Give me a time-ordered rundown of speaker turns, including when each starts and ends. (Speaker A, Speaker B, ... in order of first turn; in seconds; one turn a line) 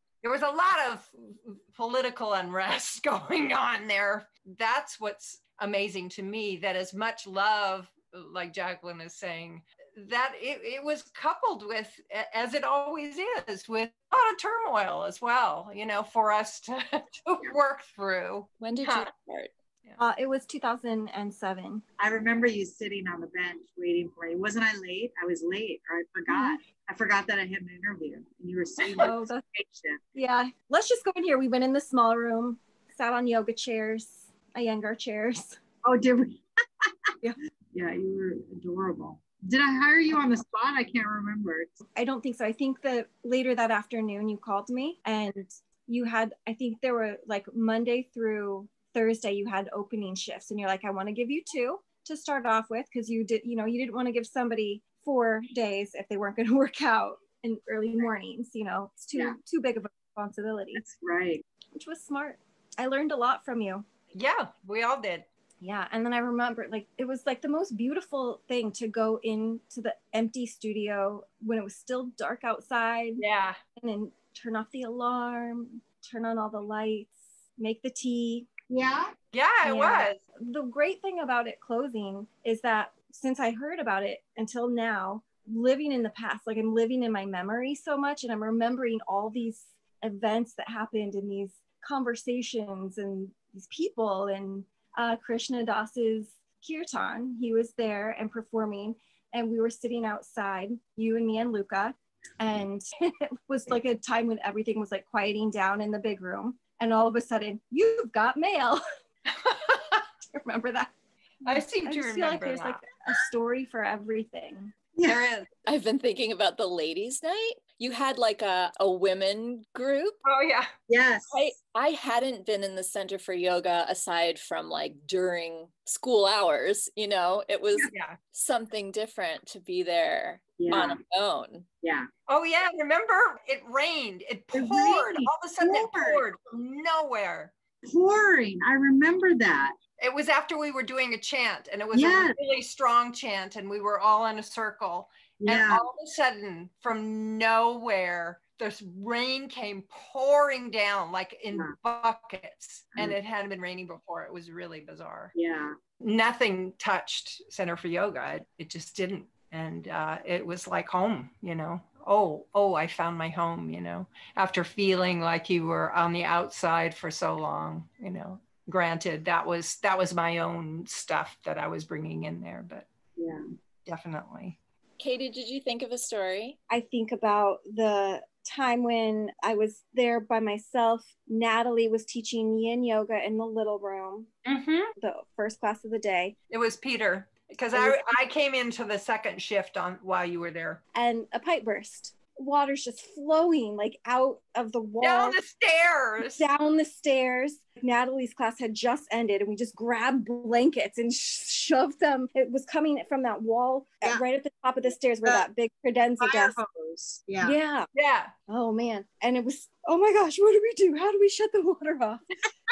Speaker A: 0.2-19.1
Speaker B: 18.6-19.5
Speaker C: 20.0-21.8
Speaker D: 22.0-30.0
Speaker C: 26.3-26.6
Speaker A: 28.8-29.1
Speaker C: 29.0-29.4
Speaker C: 30.1-35.6
Speaker D: 35.8-41.8
Speaker C: 41.9-60.8
Speaker D: 60.7-61.4
Speaker C: 61.7-63.9
Speaker A: 64.1-65.2
Speaker C: 65.6-73.2
Speaker A: 73.2-73.6
Speaker C: 73.8-78.5
Speaker D: 78.7-79.1
Speaker A: 79.3-80.2
Speaker C: 79.6-108.8
Speaker A: 109.4-110.0
Speaker C: 110.3-110.9
Speaker C: 111.4-114.7
Speaker A: 111.4-112.8
Speaker D: 114.9-115.4
Speaker A: 115.0-115.5
Speaker B: 115.7-120.2
Speaker A: 120.2-120.7
Speaker D: 120.9-121.5
Speaker B: 121.3-131.7
Speaker A: 127.9-128.2
Speaker D: 130.6-131.0
Speaker D: 131.8-132.1
Speaker A: 132.3-137.5
Speaker D: 134.5-136.2
Speaker D: 137.8-139.8
Speaker A: 140.0-155.3
Speaker D: 141.9-142.4
Speaker D: 145.4-145.8
Speaker D: 155.3-155.7
Speaker A: 156.0-172.8
Speaker D: 173.2-173.4
Speaker A: 173.8-174.6
Speaker B: 175.0-176.6
Speaker C: 176.7-184.3
Speaker A: 184.4-184.9
Speaker C: 185.0-186.3
Speaker A: 186.5-190.8
Speaker C: 187.7-188.1
Speaker C: 190.9-195.4
Speaker A: 195.0-196.4
Speaker C: 196.2-206.6
Speaker D: 206.2-207.6
Speaker C: 207.4-207.9
Speaker A: 207.9-208.3
Speaker C: 208.5-212.2